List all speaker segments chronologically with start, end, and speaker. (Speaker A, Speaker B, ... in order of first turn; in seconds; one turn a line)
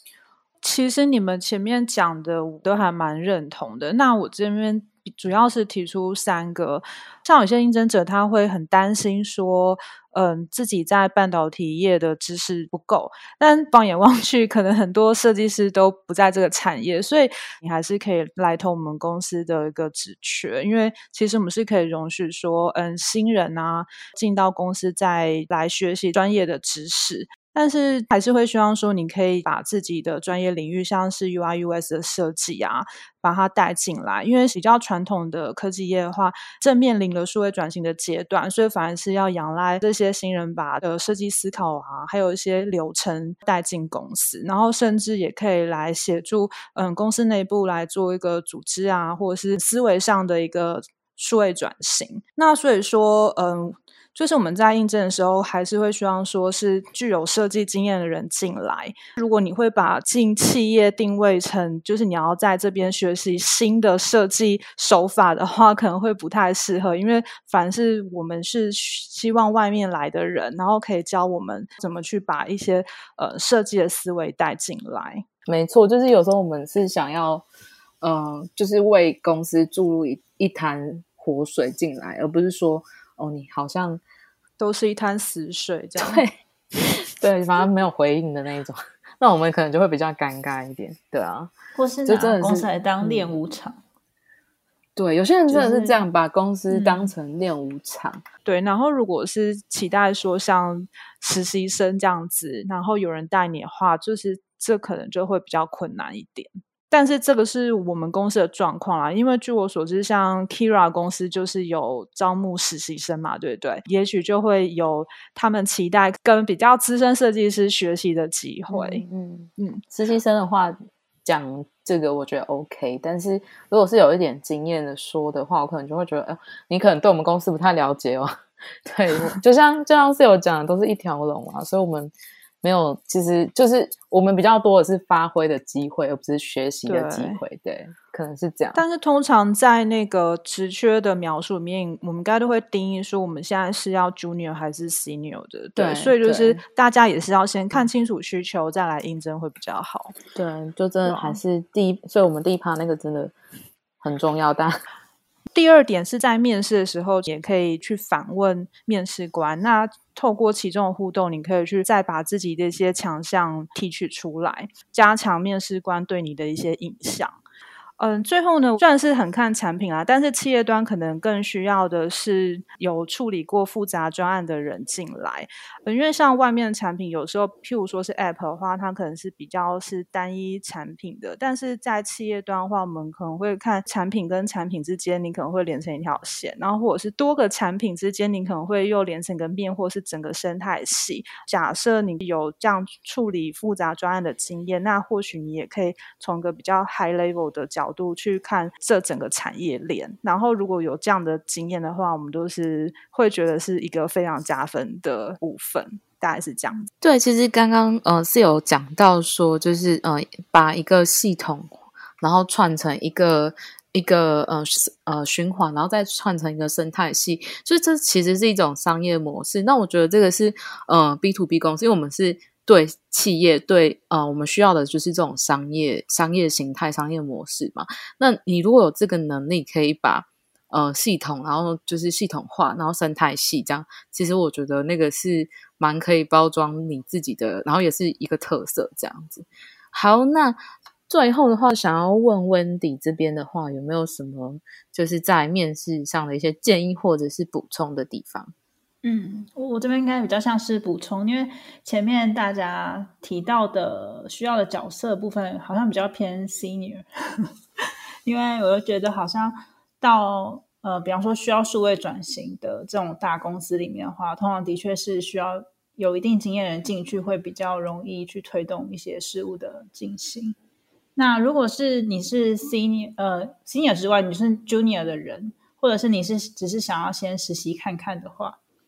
Speaker A: 0.6-75.2
Speaker B: 75.5-77.4
Speaker B: 78.0-84.0
Speaker A: 84.6-86.2
Speaker B: 86.0-91.5
Speaker C: 91.7-93.8
Speaker B: 92.0-93.3
Speaker B: 95.0-98.2
Speaker A: 95.5-96.0
Speaker A: 96.7-97.1
Speaker A: 98.4-119.0
Speaker B: 118.7-138.8
Speaker A: 136.9-137.4
Speaker A: 138.7-150.2
Speaker B: 145.8-146.6
Speaker B: 150.3-153.3
Speaker A: 151.1-151.4
Speaker B: 154.0-154.8
Speaker A: 155.5-167.4
Speaker A: 168.0-206.9
Speaker B: 207.0-248.5
Speaker C: 249.0-257.4
Speaker C: 258.2-270.6
Speaker C: 271.1-278.6